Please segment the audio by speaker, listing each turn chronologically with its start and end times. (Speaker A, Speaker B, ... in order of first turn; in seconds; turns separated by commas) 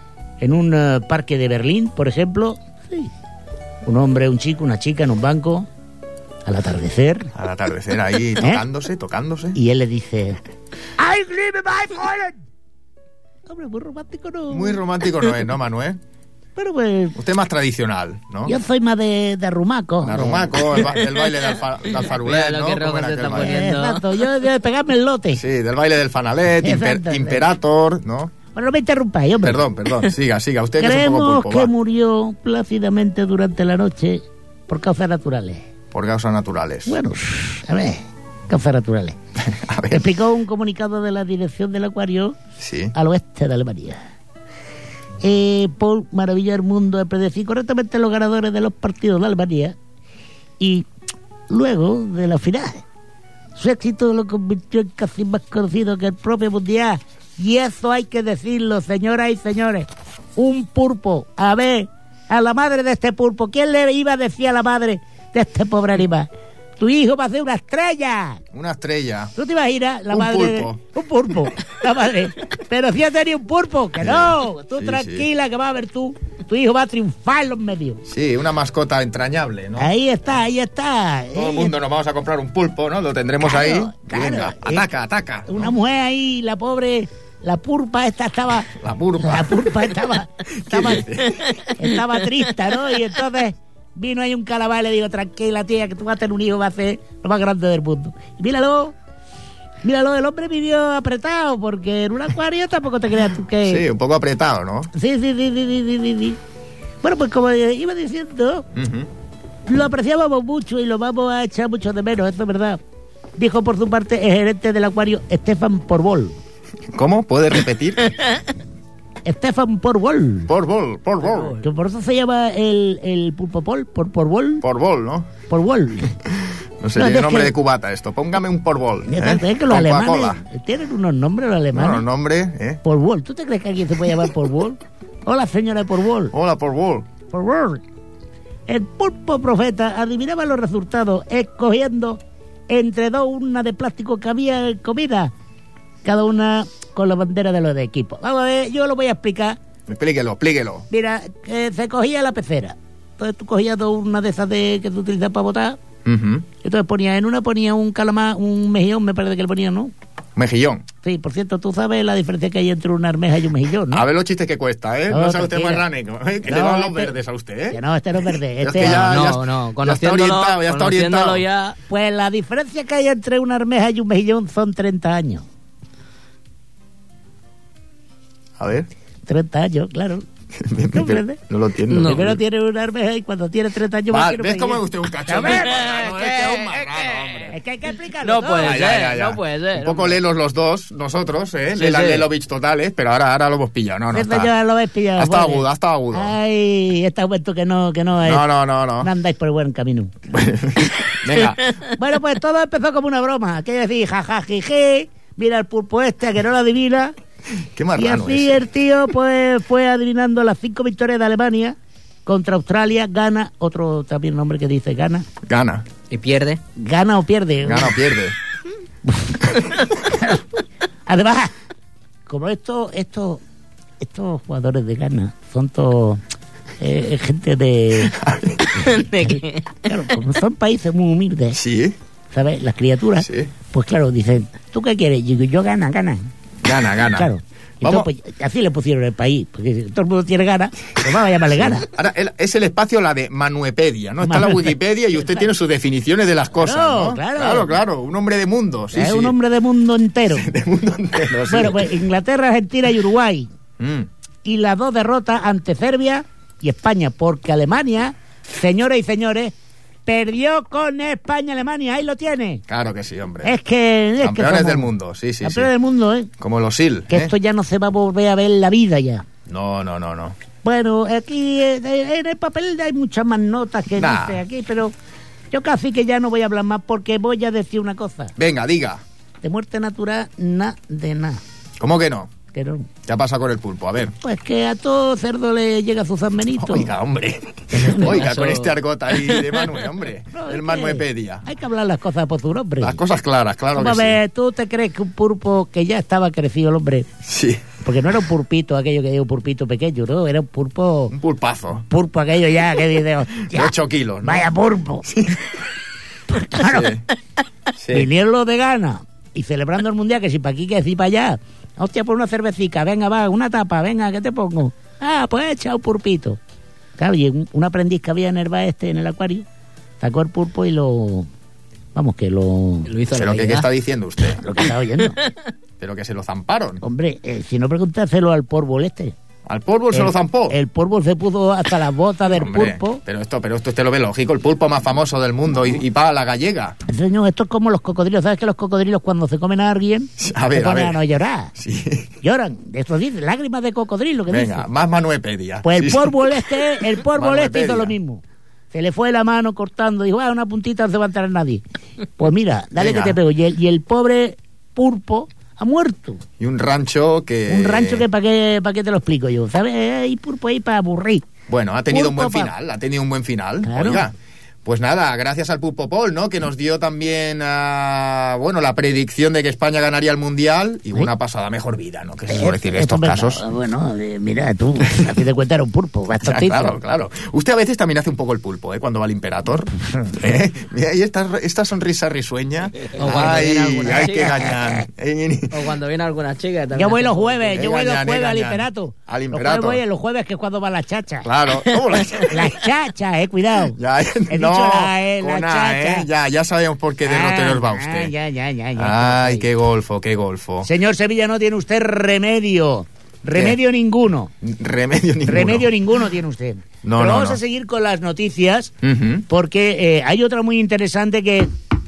Speaker A: 0.4-3.1, Speaker A: 3.8-5.7, Speaker A: 6.5-7.3, Speaker B: 7.3-9.6, Speaker A: 8.4-8.6, Speaker A: 9.5-10.4, Speaker A: 11.0-12.4, Speaker A: 13.5-14.8, Speaker B: 14.5-16.0, Speaker A: 16.6-17.2, Speaker B: 17.2-18.6, Speaker A: 18.4-20.5, Speaker B: 20.0-23.7, Speaker C: 22.2-24.2, Speaker A: 23.4-25.4, Speaker B: 25.4-28.3, Speaker A: 26.5-27.4, Speaker A: 28.5-29.6, Speaker B: 29.4-31.7, Speaker A: 30.8-35.7, Speaker B: 35.9-37.0, Speaker A: 36.9-39.2, Speaker B: 39.4-40.1, Speaker A: 39.9-42.4, Speaker B: 42.6-42.9, Speaker A: 42.9-44.1, Speaker A: 45.2-49.8, Speaker A: 50.6-50.9, Speaker A: 51.5-52.8, Speaker A: 53.5-66.3, Speaker A: 66.8-68.4, Speaker B: 68.5-69.3, Speaker A: 69.3-78.0, Speaker B: 70.1-70.8, Speaker B: 74.0-75.2, Speaker B: 78.1-79.9, Speaker A: 79.8-81.7, Speaker B: 81.3-85.7, Speaker A: 83.4-84.9, Speaker A: 85.5-91.2, Speaker B: 88.8-90.0, Speaker B: 90.5-91.4, Speaker A: 91.7-98.9, Speaker A: 99.8-103.8, Speaker B: 103.6-104.9, Speaker A: 104.9-106.4, Speaker A: 107.0-108.7, Speaker B: 108.7-109.1, Speaker A: 109.7-112.8, Speaker A: 113.4-116.4, Speaker B: 116.9-118.1, Speaker A: 119.2-120.5, Speaker B: 120.5-121.6, Speaker C: 121.2-121.6, Speaker A: 121.6-124.6, Speaker B: 124.6-125.3, Speaker A: 125.5-126.1, Speaker B: 126.8-130.4, Speaker A: 127.0-127.5, Speaker A: 129.1-132.0, Speaker B: 131.7-132.8, Speaker A: 132.8-136.3, Speaker B: 136.3-137.1, Speaker A: 137.3-137.8, Speaker A: 138.7-145.3, Speaker A: 146.0-149.6, Speaker B: 149.9-150.8, Speaker A: 150.9-155.8, Speaker B: 156.0-156.4, Speaker A: 156.6-159.9, Speaker B: 160.3-160.9, Speaker A: 161.0-164.1, Speaker B: 163.9-167.8, Speaker A: 165.1-165.8, Speaker A: 166.4-167.1, Speaker A: 167.7-169.1, Speaker B: 168.6-171.4, Speaker C: 168.8-171.8, Speaker A: 171.9-175.4, Speaker B: 178.6-178.9, Speaker A: 179.2-180.2, Speaker B: 180.6-182.4, Speaker A: 180.9-181.4, Speaker C: 181.9-182.3, Speaker A: 182.0-185.9, Speaker B: 184.1-187.5, Speaker C: 185.6-187.5, Speaker A: 187.5-188.8, Speaker C: 188.2-190.2, Speaker B: 188.6-194.5, Speaker C: 191.8-192.3, Speaker A: 194.1-198.5, Speaker B: 195.2-196.3, Speaker B: 198.2-199.1, Speaker A: 199.0-200.2, Speaker B: 200.3-201.6, Speaker A: 201.9-207.1, Speaker B: 207.7-208.6, Speaker A: 207.9-215.3, Speaker B: 215.4-215.8, Speaker C: 216.1-216.6, Speaker A: 216.8-218.0, Speaker B: 217.6-218.3, Speaker A: 219.0-219.5, Speaker A: 220.1-220.4, Speaker A: 221.1-221.5, Speaker A: 222.3-223.4, Speaker A: 224.0-226.2, Speaker A: 226.8-228.2, Speaker B: 228.0-228.8, Speaker C: 228.7-229.7, Speaker A: 229.2-231.6, Speaker B: 231.5-232.0, Speaker A: 232.3-236.3, Speaker B: 233.2-233.5, Speaker B: 236.6-238.1, Speaker A: 237.1-241.9, Speaker B: 241.5-249.3, Speaker A: 244.2-244.8, Speaker A: 246.6-247.8, Speaker A: 248.9-250.5, Speaker B: 250.3-252.0, Speaker A: 251.5-253.5, Speaker B: 253.8-254.1, Speaker A: 254.4-259.5, Speaker A: 260.1-262.6, Speaker B: 262.7-263.6, Speaker A: 263.4-264.9, Speaker B: 264.2-265.7, Speaker A: 265.4-266.3, Speaker B: 266.4-267.3, Speaker A: 267.1-269.2, Speaker B: 269.4-270.4, Speaker A: 270.6-274.9, Speaker B: 273.9-274.4, Speaker A: 275.5-278.3, Speaker B: 278.4-279.0, Speaker A: 279.4-281.4, Speaker B: 281.8-282.3, Speaker A: 282.5-282.9, Speaker B: 283.1-284.1, Speaker A: 284.2-286.9, Speaker B: 286.6-291.4, Speaker C: 287.7-289.7, Speaker A: 290.3-293.0, Speaker B: 292.8-294.2, Speaker A: 293.7-297.1, Speaker B: 297.2-297.6, Speaker A: 297.8-301.1, Speaker B: 301.1-301.8, Speaker A: 301.9-305.1, Speaker B: 303.5-304.5, Speaker B: 305.0-305.4, Speaker A: 306.3-307.0, Speaker B: 306.6-307.0, Speaker B: 307.8-308.1, Speaker A: 307.9-316.4, Speaker A: 317.0-319.4, Speaker A: 320.0-321.3, Speaker A: 321.9-322.9, Speaker C: 322.9-323.7, Speaker B: 323.1-324.4, Speaker A: 324.4-325.2, Speaker B: 325.8-326.8, Speaker A: 326.8-329.1, Speaker B: 329.4-330.6, Speaker A: 329.9-333.0, Speaker B: 332.3-336.8, Speaker A: 336.9-341.5, Speaker B: 340.2-341.0, Speaker B: 341.6-342.1, Speaker A: 342.2-344.6, Speaker B: 344.3-347.9, Speaker A: 345.6-351.6, Speaker A: 352.2-356.2, Speaker B: 352.8-353.2, Speaker B: 356.4-358.1, Speaker A: 357.5-361.2, Speaker B: 361.5-364.1, Speaker A: 361.9-362.5, Speaker A: 363.6-364.1, Speaker B: 364.6-373.4, Speaker A: 372.3-376.8, Speaker B: 376.2-385.7, Speaker C: 382.9-384.5, Speaker C: 385.5-387.7, Speaker A: 386.7-391.3, Speaker B: 387.5-389.8, Speaker B: 391.2-392.5, Speaker A: 392.2-393.8, Speaker B: 393.7-398.1, Speaker A: 394.3-396.1, Speaker A: 397.0-399.5, Speaker B: 398.8-400.7, Speaker A: 400.6-404.3, Speaker B: 404.4-405.7, Speaker A: 405.2-408.7, Speaker B: 406.8-407.4, Speaker B: 408.8-409.2, Speaker A: 409.3-411.5